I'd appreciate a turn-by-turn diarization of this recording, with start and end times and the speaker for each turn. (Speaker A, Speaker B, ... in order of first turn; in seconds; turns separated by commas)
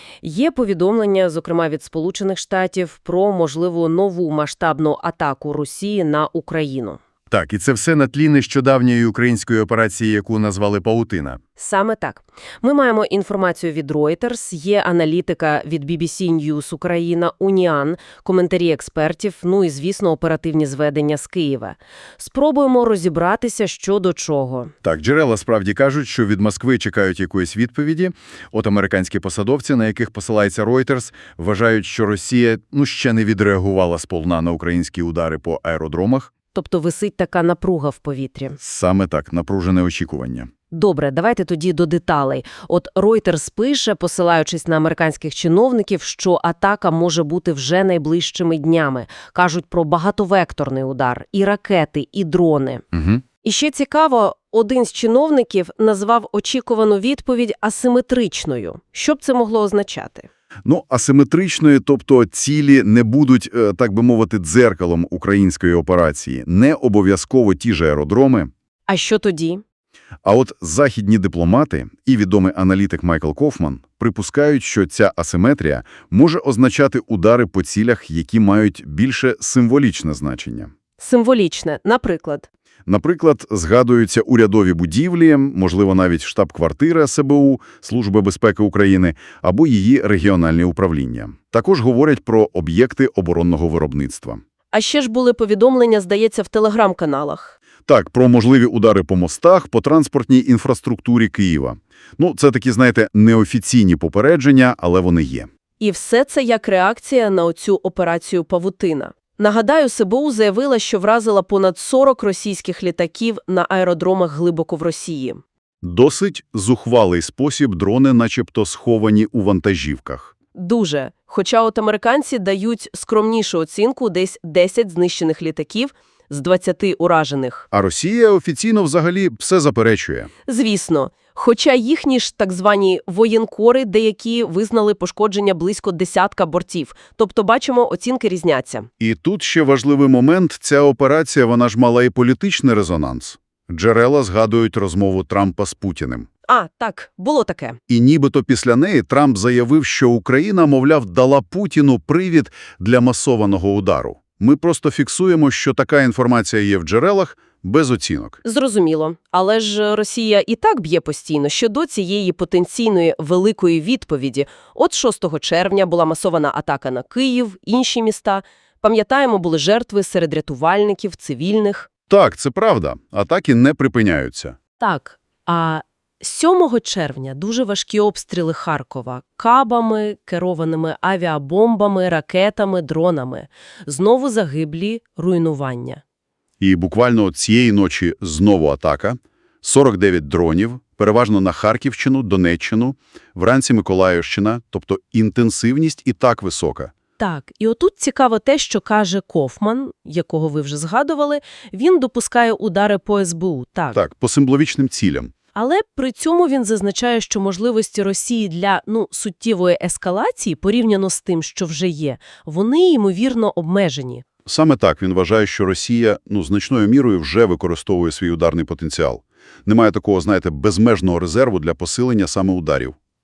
Speaker A: 0.2-7.0, Speaker B: 7.3-11.4, Speaker A: 11.6-24.7, Speaker B: 24.8-36.3, Speaker A: 36.5-38.6, Speaker B: 38.6-40.5, Speaker A: 40.7-52.9, Speaker A: 53.4-60.3, Speaker B: 60.6-68.5, Speaker A: 68.9-69.6, Speaker B: 70.2-80.7, Speaker A: 81.0-82.5, Speaker B: 82.9-94.4, Speaker A: 94.7-97.6, Speaker B: 97.9-105.5, Speaker A: 105.8-115.4, Speaker B: 115.8-120.3, Speaker A: 120.5-127.7, Speaker B: 127.7-130.3, Speaker A: 130.5-138.9, Speaker B: 139.0-146.3, Speaker A: 146.5-147.8, Speaker B: 147.9-158.4, Speaker A: 158.4-171.9, Speaker B: 172.1-174.6, Speaker A: 174.8-186.0, Speaker B: 186.6-196.9, Speaker A: 197.2-204.0, Speaker B: 203.9-205.3, Speaker A: 205.5-214.2, Speaker B: 214.4-222.9